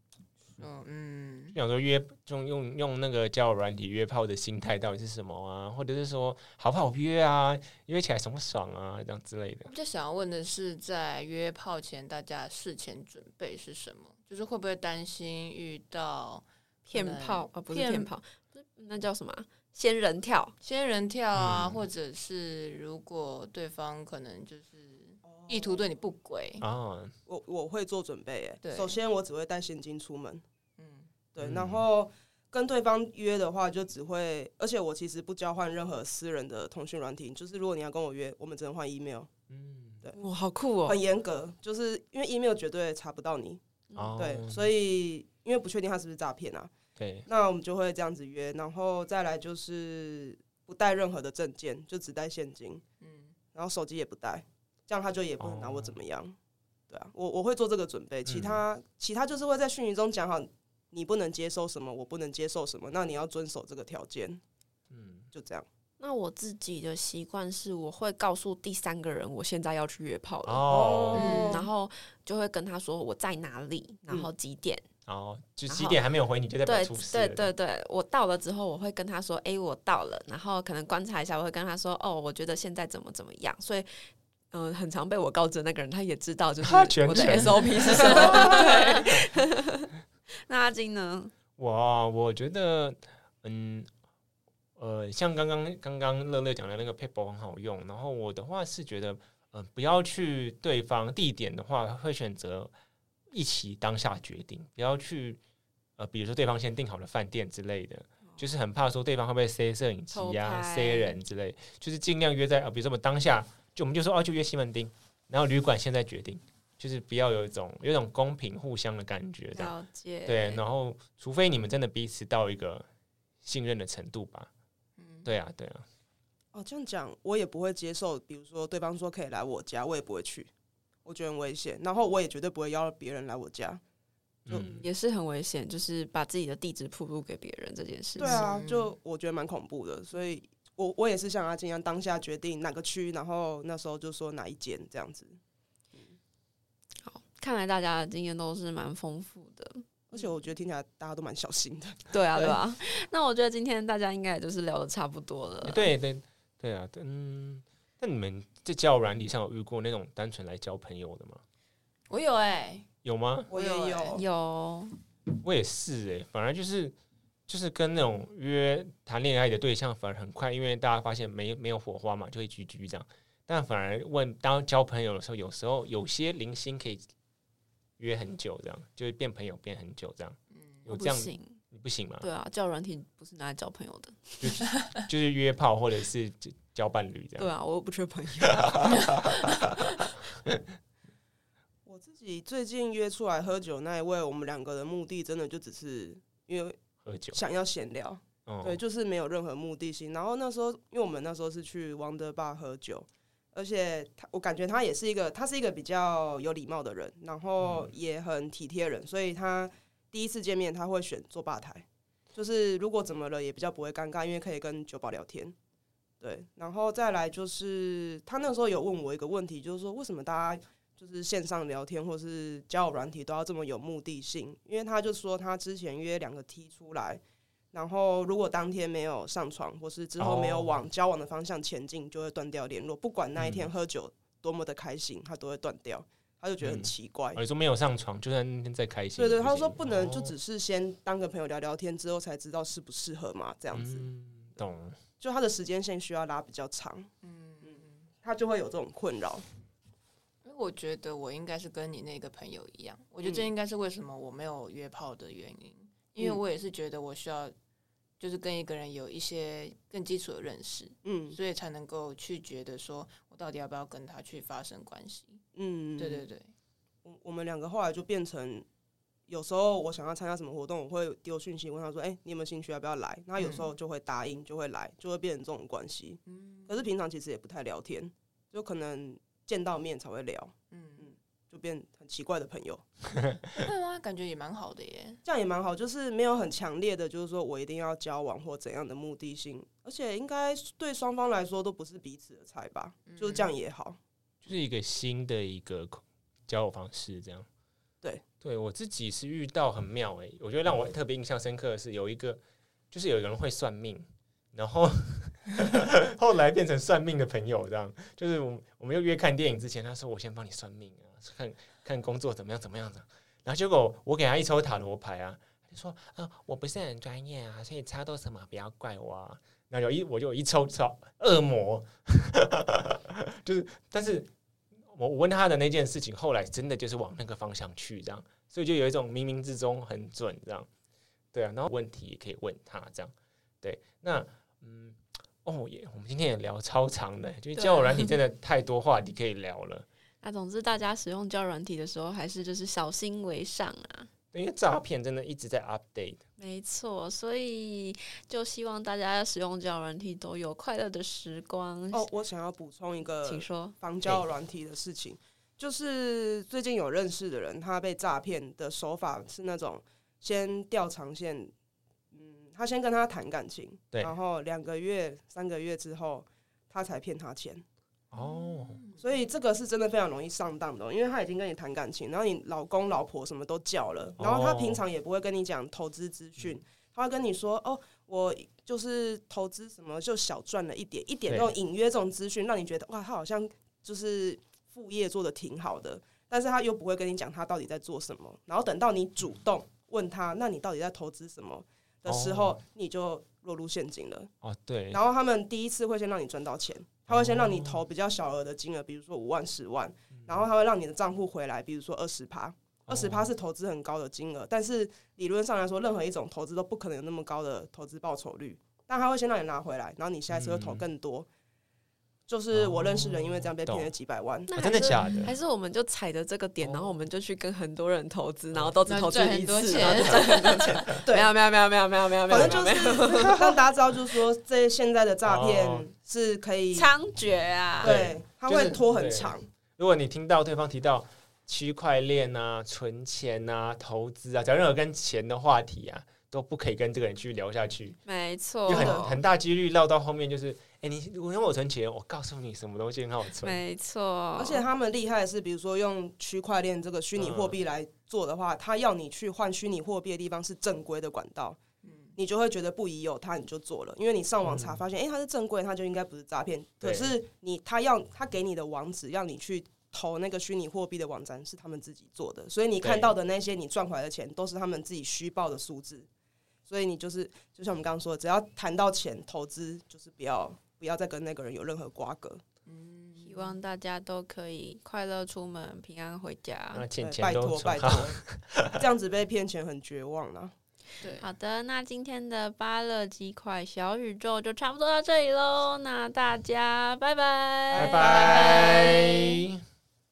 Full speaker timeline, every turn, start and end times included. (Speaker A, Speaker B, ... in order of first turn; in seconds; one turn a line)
Speaker A: 0.6-1.6
Speaker B: 1.5-9.7
Speaker A: 9.6-18.1
Speaker C: 16.9-20.5
Speaker A: 20.6-26.6
Speaker B: 21.3-21.9
Speaker D: 25.2-25.8
Speaker B: 26.6-27.1
Speaker D: 27.2-30.4
Speaker A: 28.6-29.0
Speaker A: 30.8-31.1
Speaker D: 31.3-39.3
Speaker B: 31.4-31.9
Speaker B: 39.5-40.0
Speaker C: 40.2-41.0
Speaker D: 40.9-43.6
Speaker C: 43.9-44.2
Speaker B: 43.9-44.7
Speaker D: 44.2-46.7
Speaker B: 47.0-47.3
Speaker D: 47.3-52.8
Speaker A: 53.0-53.3
Speaker D: 53.5-56.3
Speaker B: 55.4-55.9
Speaker D: 56.9-64.4
Speaker B: 58.2-58.6
Speaker B: 64.9-65.3
Speaker D: 65.3-65.7
Speaker C: 66.0-74.8
Speaker B: 70.5-71.4
Speaker D: 70.7-71.7
Speaker A: 71.1-71.7
Speaker B: 75.0-77.5
Speaker C: 75.7-76.0
Speaker C: 76.6-83.9
Speaker C: 84.5-89.9
Speaker B: 86.6-88.7
Speaker A: 88.0-88.5
Speaker C: 90.5-91.3
Speaker B: 91.6-93.9
Speaker B: 94.8-102.7
Speaker B: 103.3-105.4
Speaker B: 106.0-119.7
Speaker C: 110.1-111.2
Speaker C: 119.5-120.6
Speaker B: 120.2-122.8
Speaker B: 123.4-124.5
Speaker A: 125.0-125.3
Speaker B: 125.2-125.8
Speaker D: 126.5-130.5
Speaker D: 131.0-133.8
Speaker B: 134.4-134.8
Speaker C: 134.7-138.4
Speaker D: 138.2-145.4
Speaker A: 138.2-138.9
Speaker C: 147.0-149.8
Speaker D: 150.1-152.6
Speaker C: 152.1-155.9
Speaker B: 155.6-161.4
Speaker A: 162.1-162.8
Speaker B: 163.0-163.5
Speaker D: 163.5-164.2
Speaker A: 163.6-164.0
Speaker C: 163.6-164.9
Speaker B: 165.4-166.9
Speaker B: 167.5-177.0
Speaker B: 178.0-182.3
Speaker A: 180.5-180.8
Speaker C: 180.9-181.6
Speaker C: 182.2-184.4
Speaker B: 184.4-187.5
Speaker C: 187.4-189.1
Speaker B: 188.4-190.6
Speaker D: 191.8-196.8
Speaker B: 197.0-197.4
Speaker D: 197.3-215.5
Speaker B: 198.4-198.8
Speaker B: 207.6-207.9
Speaker D: 216.2-227.2
Speaker D: 227.7-237.4
Speaker B: 230.2-230.8
Speaker B: 233.4-233.7
Speaker B: 236.6-240.3
Speaker D: 239.2-244.1
Speaker B: 243.7-245.0
Speaker D: 245.2-247.1
Speaker A: 247.2-248.1
Speaker D: 247.6-249.4
Speaker A: 250.4-257.5
Speaker D: 253.2-253.5
Speaker A: 258.2-265.4
Speaker D: 261.0-261.4
Speaker D: 265.6-266.2
Speaker A: 266.0-266.5
Speaker D: 267.0-268.6
Speaker D: 269.3-282.8
Speaker A: 273.4-273.7
Speaker A: 276.3-276.9
Speaker A: 280.7-281.1
Speaker A: 283.5-285.2
Speaker D: 285.2-294.0
Speaker A: 293.1-293.5
Speaker B: 294.4-297.5
Speaker B: 298.4-324.3
Speaker B: 324.9-330.7
Speaker B: 331.3-339.9
Speaker C: 337.6-338.1
Speaker C: 340.2-344.1
Speaker B: 344.3-346.2
Speaker C: 346.4-352.1
Speaker D: 351.9-361.5
Speaker C: 353.2-353.8
Speaker D: 362.1-367.6
Speaker B: 368.1-368.8
Speaker A: 368.1-369.0
Speaker D: 369.0-394.3
Speaker B: 374.2-374.8
Speaker B: 381.3-381.5
Speaker B: 392.1-392.6
Speaker B: 394.4-395.0
Speaker D: 394.9-411.3
Speaker B: 397.1-397.8
Speaker B: 400.1-400.4
Speaker B: 402.9-403.3
Speaker B: 410.3-410.9
Speaker D: 412.3-414.5
Speaker B: 412.5-413.9
Speaker C: 414.5-423.6
Speaker B: 414.5-415.3
Speaker B: 416.6-417.0
Speaker A: 418.9-420.7
Speaker B: 419.9-420.1
Speaker D: 421.0-421.3
Speaker D: 422.3-426.9
Speaker B: 422.3-422.7
Speaker B: 425.2-425.9
Speaker C: 426.7-428.0
Speaker D: 427.8-429.5
Speaker B: 427.8-438.0
Speaker C: 438.1-439.2
Speaker B: 438.6-443.6
Speaker D: 438.7-439.0
Speaker C: 443.4-444.6
Speaker D: 444.4-451.6
Speaker B: 447.1-447.6
Speaker A: 451.8-452.1
Speaker D: 452.2-466.1
Speaker B: 454.4-454.8
Speaker B: 456.8-457.2
Speaker B: 462.8-463.1
Speaker D: 466.7-472.4
Speaker A: 472.6-473.6
Speaker C: 473.2-476.8
Speaker B: 476.7-478.8
Speaker D: 477.0-478.2
Speaker D: 478.8-480.5
Speaker A: 481.0-481.2
Speaker C: 481.2-488.5
Speaker D: 487.7-488.6
Speaker B: 487.8-489.6